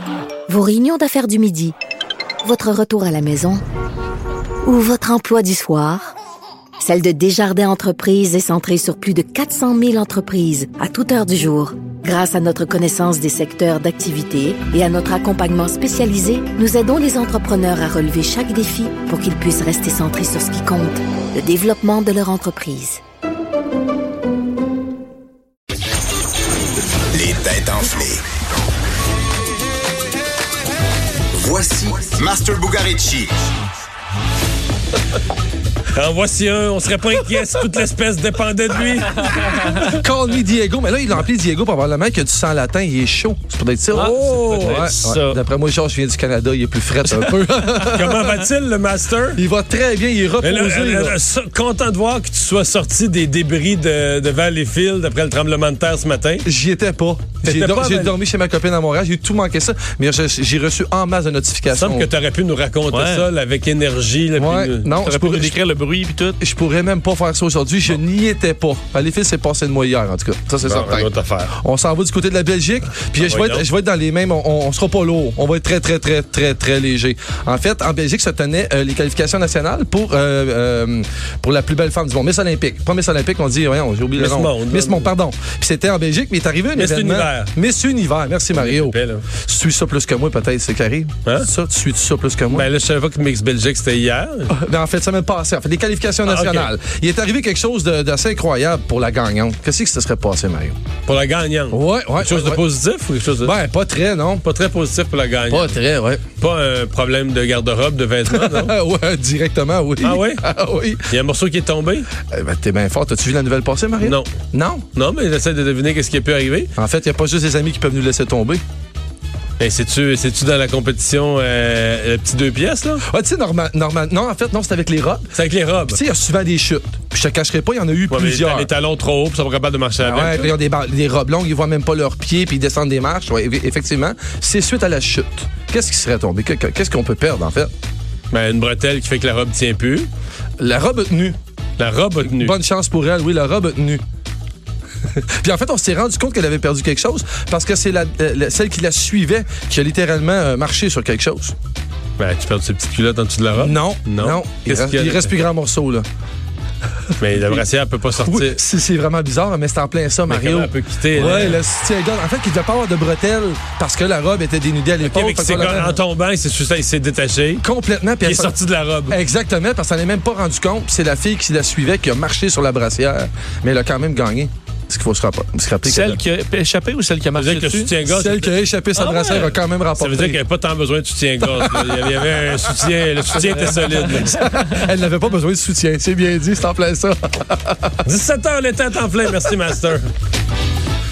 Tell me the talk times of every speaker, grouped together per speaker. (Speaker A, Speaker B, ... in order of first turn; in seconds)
Speaker A: 0.5-1.8, 2.4-3.6, 4.6-6.2, 6.8-23.0
Speaker B: 27.1-28.2, 31.3-33.4
Speaker C: 35.9-39.9, 43.9-45.0, 47.2-49.4, 50.4-56.5, 57.4-58.1, 61.7-64.9, 70.6-71.6, 73.2-73.7, 84.2-85.1, 86.8-87.5, 88.5-89.3, 92.5-94.5, 96.2-96.7, 101.1-103.5, 104.4-105.8, 106.4-108.7, 110.0-110.4, 111.1-112.1, 114.0-114.3, 115.0-116.7, 119.6-123.0, 125.3-126.0, 128.1-130.5, 138.3-140.1, 141.8-142.5, 152.2-155.3, 157.2-158.6, 160.3-161.6, 165.0-167.6, 168.2-169.2, 177.3-184.4, 188.1-190.1
Speaker D: 39.8-48.5, 49.4-51.2, 56.5-62.1, 64.4-65.6, 66.4-92.7, 94.5-100.8, 101.7-102.6, 103.4-104.5, 105.5-106.2, 108.3-111.1, 112.3-114.8, 116.8-118.6, 123.1-125.3, 125.9-128.7, 130.0-137.7, 140.6-141.4, 142.2-144.0, 145.1-151.6, 153.6-156.1, 157.3-157.6, 158.3-166.0, 167.6-168.5, 169.1-176.2, 178.0-180.4, 181.4-188.0
Speaker E: 43.9-45.4, 62.9-63.3, 65.0-66.4, 175.8-178.0